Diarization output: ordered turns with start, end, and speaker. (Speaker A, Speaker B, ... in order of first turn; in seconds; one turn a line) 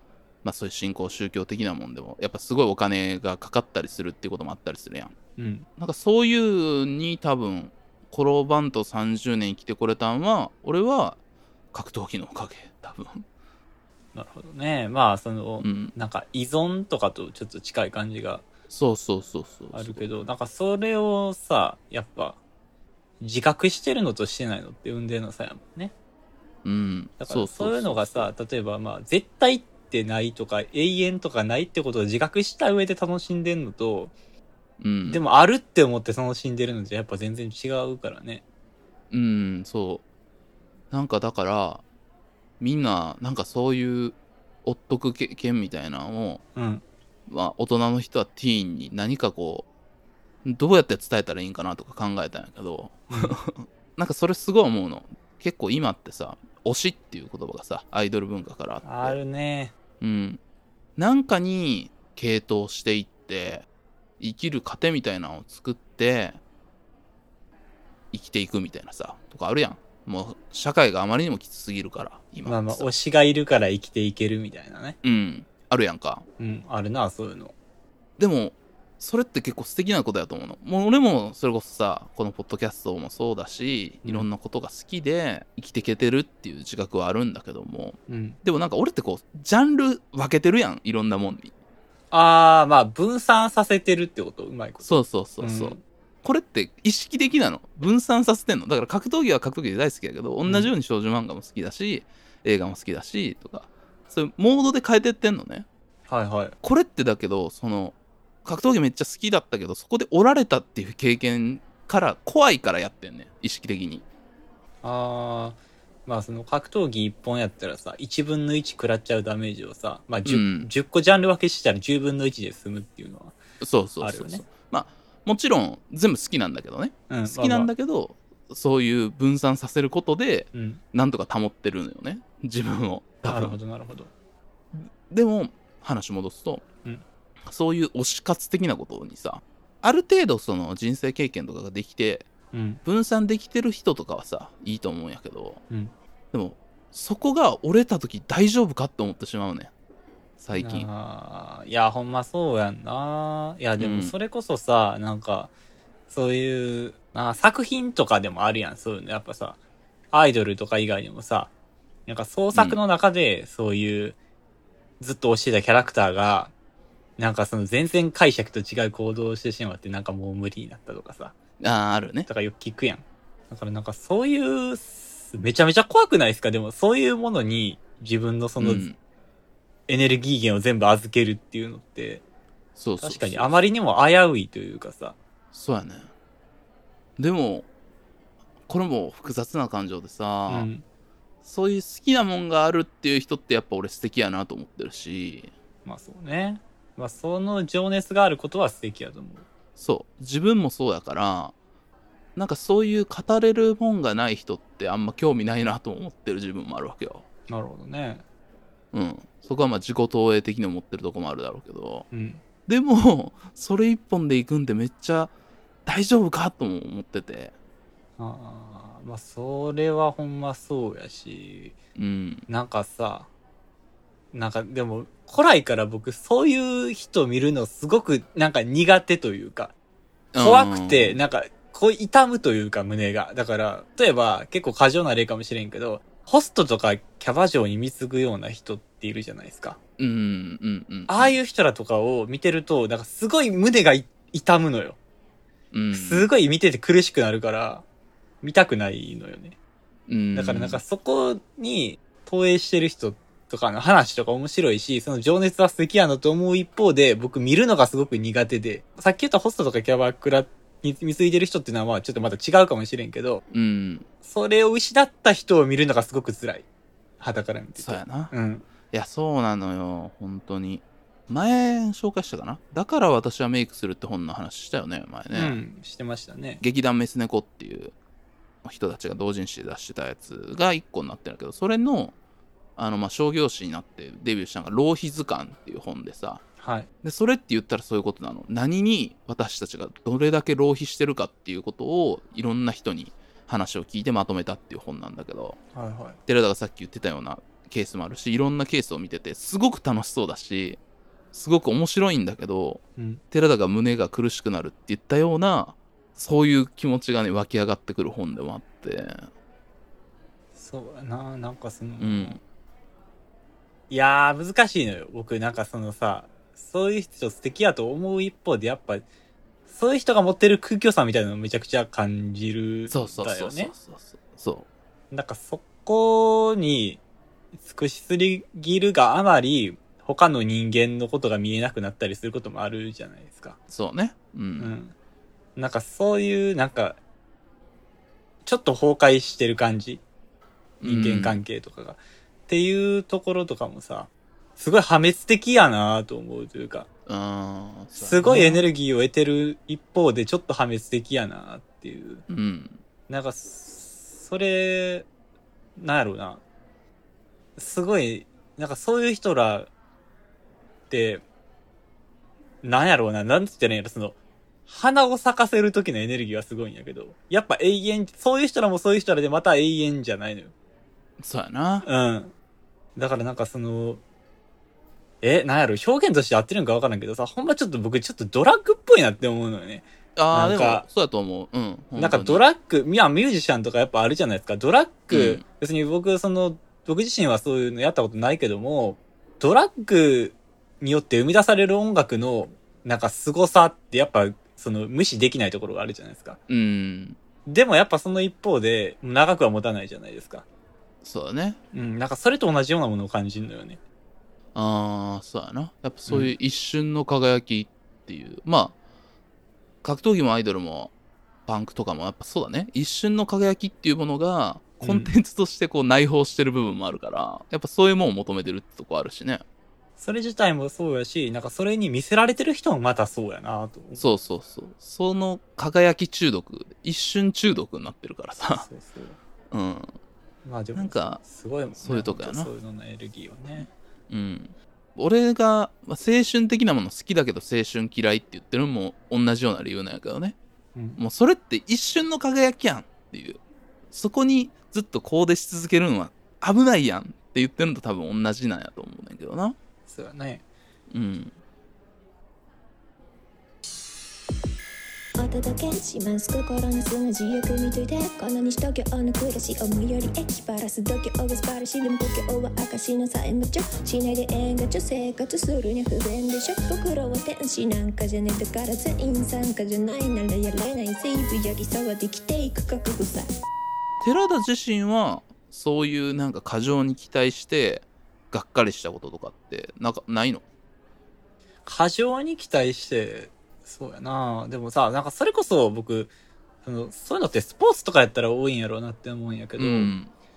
Speaker A: 0.4-5.1
Speaker B: 5.4-5.7
Speaker A: 5.8-11.2
Speaker A: 11.7-13.2
Speaker B: 14.1-18.4
Speaker A: 15.6-15.9
Speaker A: 18.7-20.1
Speaker B: 19.7-22.4
Speaker B: 23.2-25.9
Speaker A: 26.6-28.3
Speaker B: 27.2-34.1
Speaker A: 34.8-35.2
Speaker B: 35.0-38.4
Speaker A: 39.1-40.0
Speaker A: 40.9-41.8
Speaker A: 42.6-46.4
Speaker B: 46.5-46.8
Speaker A: 47.3-49.6
Speaker A: 50.4-59.2
Speaker B: 53.1-53.3
Speaker B: 58.8-59.7
Speaker A: 60.0-60.4
Speaker A: 61.0-63.6
Speaker A: 64.2-66.4
Speaker A: 68.1-72.9
Speaker B: 72.5-75.0
Speaker A: 75.0-76.2
Speaker B: 76.4-77.5
Speaker A: 78.2-91.5
Speaker B: 88.1-88.4
Speaker B: 92.1-95.8
Speaker A: 94.8-105.7
Speaker B: 100.4-100.7
Speaker B: 106.1-106.5
Speaker A: 106.6-114.0
Speaker B: 114.8-123.3
Speaker A: 120.2-120.7
Speaker A: 123.6-133.6
Speaker B: 124.0-124.4
Speaker B: 127.1-127.7
Speaker B: 130.5-130.8
Speaker B: 133.2-134.1
Speaker A: 134.7-136.6
Speaker A: 137.4-142.3
Speaker B: 142.5-142.8
Speaker A: 142.8-145.6
Speaker A: 146.3-149.7
Speaker A: 150.4-150.9
Speaker B: 150.6-155.5
Speaker A: 153.8-154.1
Speaker B: 156.1-159.6
Speaker B: 160.1-161.5
Speaker B: 162.1-164.2
Speaker A: 162.5-162.8
Speaker B: 165.0-166.5
Speaker B: 167.2-171.3
Speaker A: 171.6-172.3
Speaker B: 172.3-178.8
Speaker A: 178.6-179.0
Speaker B: 179.9-182.2
Speaker A: 182.8-183.6
Speaker B: 183.0-185.2
Speaker A: 185.5-186.1
Speaker A: 187.2-187.7
Speaker A: 188.7-190.7
Speaker B: 190.5-190.8
Speaker A: 191.4-195.5
Speaker B: 195.8-199.5
Speaker A: 199.8-201.5
Speaker A: 202.3-207.2
Speaker B: 207.5-208.2
Speaker A: 208.9-212.1
Speaker B: 212.1-212.4
Speaker A: 212.7-215.3
Speaker A: 215.8-217.5
Speaker B: 218.2-221.8
Speaker A: 222.0-222.4
Speaker B: 222.5-223.3
Speaker B: 224.3-229.7
Speaker A: 230.3-231.2
Speaker B: 230.4-239.8
Speaker A: 240.0-241.4
Speaker B: 241.1-245.0
Speaker A: 245.7-246.3
Speaker B: 245.9-247.8
Speaker B: 248.4-249.6
Speaker A: 250.1-250.8
Speaker B: 250.3-263.4
Speaker A: 263.5-264.1
Speaker B: 264.2-266.6
Speaker B: 267.2-268.7
Speaker A: 267.8-268.3
Speaker A: 268.9-275.6
Speaker B: 275.3-276.6
Speaker A: 276.6-277.9
Speaker A: 278.6-282.1
Speaker A: 282.8-286.4
Speaker B: 286.6-286.9
Speaker A: 287.0-295.6
Speaker B: 295.7-296.2
Speaker A: 296.3-300.8
Speaker A: 301.3-309.3
Speaker B: 303.0-303.2
Speaker B: 310.5-312.4
Speaker A: 312.0-312.4
Speaker B: 313.9-319.1
Speaker B: 319.7-323.7
Speaker A: 322.9-324.7
Speaker B: 325.1-327.0
Speaker B: 327.6-333.6
Speaker A: 333.7-334.7
Speaker B: 334.6-334.9
Speaker B: 335.6-337.0
Speaker B: 338.4-340.0
Speaker A: 340.8-341.4
Speaker B: 340.8-346.9
Speaker A: 347.1-348.6
Speaker B: 348.0-352.2
Speaker A: 352.3-352.8
Speaker B: 353.1-355.1
Speaker B: 355.8-356.4
Speaker B: 357.6-359.7
Speaker B: 360.9-361.2
Speaker B: 362.6-370.5
Speaker A: 371.2-371.9
Speaker B: 371.8-372.3
Speaker B: 372.9-374.0
Speaker B: 375.2-380.9
Speaker A: 380.1-382.4
Speaker B: 381.9-396.4
Speaker A: 385.1-385.4
Speaker A: 396.5-397.2
Speaker B: 397.4-400.4
Speaker A: 401.0-401.6
Speaker B: 401.7-403.8
Speaker A: 404.5-408.7
Speaker B: 406.1-406.3
Speaker A: 409.8-410.9
Speaker A: 411.5-419.4
Speaker B: 414.8-415.1
Speaker B: 420.0-424.1
Speaker A: 424.0-428.7
Speaker B: 428.6-429.2
Speaker A: 429.5-429.9
Speaker B: 430.4-433.7
Speaker A: 430.7-431.2
Speaker A: 431.8-432.5
Speaker A: 433.6-440.4
Speaker B: 440.7-441.0
Speaker A: 441.0-443.4
Speaker A: 443.9-449.6
Speaker B: 449.9-450.4
Speaker A: 450.9-451.3
Speaker C: 455.2-473.3
Speaker A: 474.0-480.4
Speaker B: 481.6-486.1
Speaker B: 486.6-489.9
Speaker A: 489.6-490.1